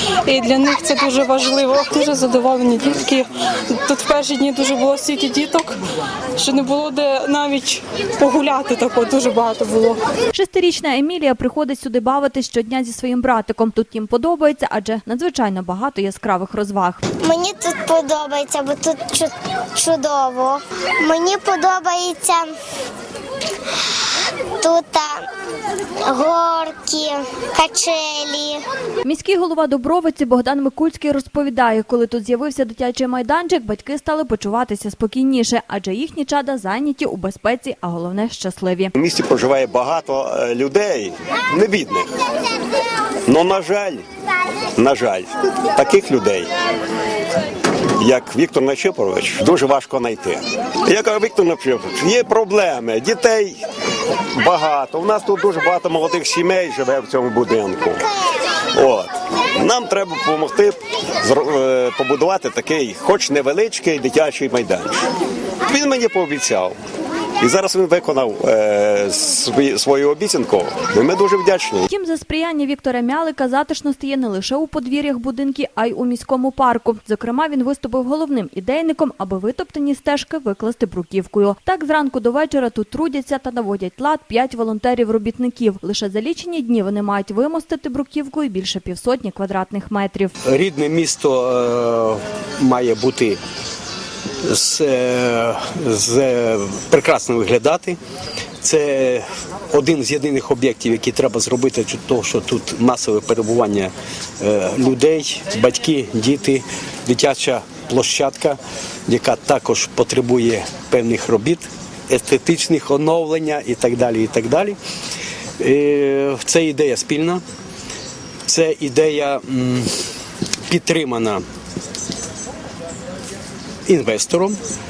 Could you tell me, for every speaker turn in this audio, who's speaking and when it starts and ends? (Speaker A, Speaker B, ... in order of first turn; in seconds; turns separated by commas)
Speaker A: 0.2-5.8, Speaker A: 6.3-10.0, Speaker B: 10.3-17.0, Speaker C: 17.2-22.5, Speaker C: 24.6-25.3, Speaker C: 26.1-28.6, Speaker B: 29.0-38.9, Speaker D: 39.0-42.1, Speaker D: 43.3-44.0, Speaker D: 44.8-46.5, Speaker D: 48.0-53.6, Speaker D: 54.4-58.1, Speaker D: 58.7-65.0, Speaker D: 65.7-66.7, Speaker D: 67.4-71.9, Speaker B: 71.9-90.3, Speaker E: 90.4-93.4, Speaker E: 94.4-98.0, Speaker E: 98.6-114.8, Speaker E: 115.6-117.4, Speaker E: 118.5-119.9, Speaker E: 120.7-121.4, Speaker E: 123.8-124.6